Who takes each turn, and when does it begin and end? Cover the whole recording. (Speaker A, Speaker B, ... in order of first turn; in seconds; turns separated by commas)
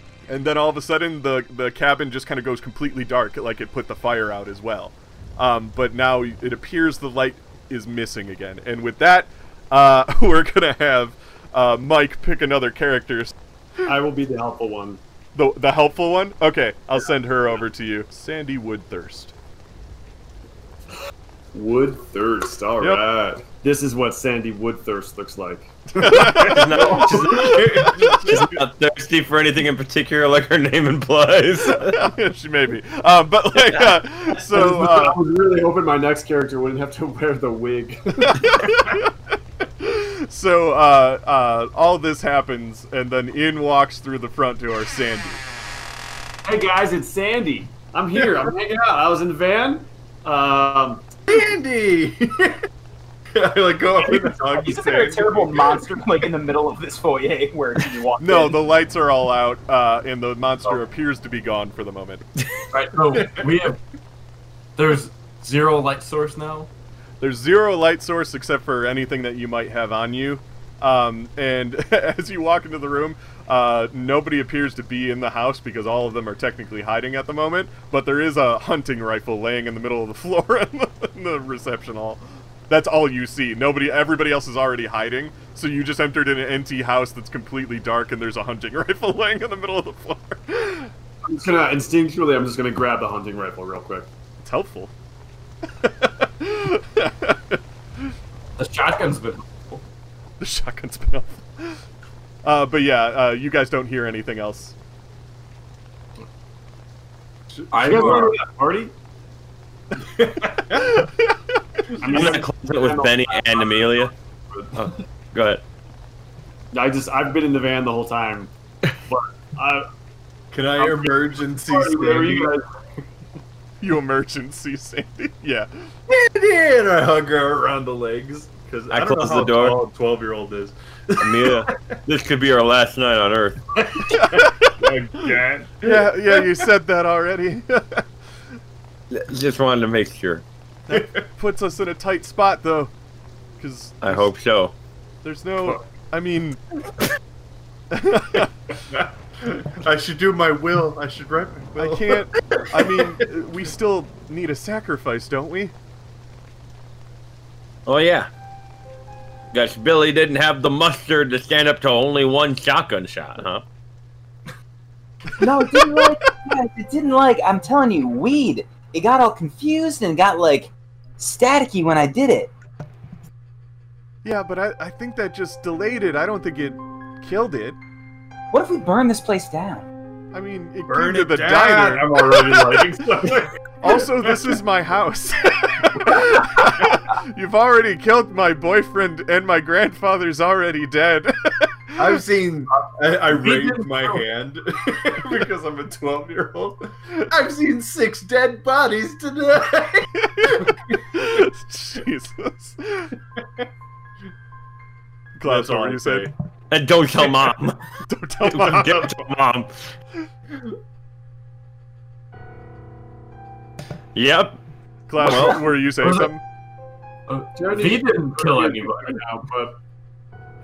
Speaker A: 0.3-13.3, Speaker B: 13.9-15.0, Speaker A: 15.3-19.3, Speaker B: 21.5-26.4, Speaker A: 26.0-28.2, Speaker C: 26.3-32.0, Speaker D: 26.6-28.6, Speaker A: 31.7-35.2, Speaker B: 34.5-38.5, Speaker A: 38.2-39.1, Speaker A: 39.7-45.4, Speaker B: 46.5-51.1, Speaker D: 51.3-52.6, Speaker D: 53.3-55.9, Speaker E: 54.1-58.6, Speaker A: 58.2-62.2, Speaker F: 62.7-63.8, Speaker F: 64.8-66.7, Speaker A: 67.2-90.9, Speaker B: 91.2-94.1, Speaker A: 94.4-94.9, Speaker A: 95.8-97.6, Speaker F: 98.6-99.8, Speaker A: 100.4-101.8, Speaker A: 102.4-104.8, Speaker F: 107.7-108.4, Speaker B: 107.8-108.9, Speaker D: 110.0-111.0, Speaker A: 110.7-111.3, Speaker B: 112.0-114.1, Speaker C: 112.0-114.1, Speaker C: 114.8-115.6, Speaker B: 116.7-118.5, Speaker B: 119.1-119.9, Speaker D: 120.5-122.6, Speaker B: 120.8-122.7, Speaker A: 123.8-125.9, Speaker D: 126.1-131.8, Speaker C: 128.9-129.8, Speaker C: 131.2-133.6, Speaker D: 133.9-136.6, Speaker A: 134.1-138.1, Speaker C: 139.1-140.4, Speaker A: 140.9-142.9, Speaker D: 140.9-141.2, Speaker A: 143.6-144.3, Speaker C: 144.0-144.7, Speaker A: 145.2-146.6, Speaker A: 147.9-148.5, Speaker D: 148.9-153.2, Speaker A: 151.8-155.7, Speaker C: 157.9-158.3, Speaker C: 159.5-163.6, Speaker E: 165.4-172.5, Speaker A: 165.4-166.1, Speaker A: 174.2-177.8, Speaker E: 178.5-179.9, Speaker A: 180.3-182.8, Speaker D: 180.9-184.6, Speaker A: 183.8-192.1, Speaker D: 192.0-201.0, Speaker F: 193.3-194.2, Speaker A: 200.2-203.1, Speaker D: 203.4-203.7, Speaker A: 205.4-206.3, Speaker D: 205.4-206.3, Speaker C: 206.7-207.8, Speaker A: 208.1-209.1, Speaker C: 208.4-209.9, Speaker C: 214.2-214.6, Speaker A: 215.1-216.4, Speaker C: 215.2-215.7, Speaker F: 215.3-216.3, Speaker F: 217.3-219.2, Speaker B: 217.6-219.8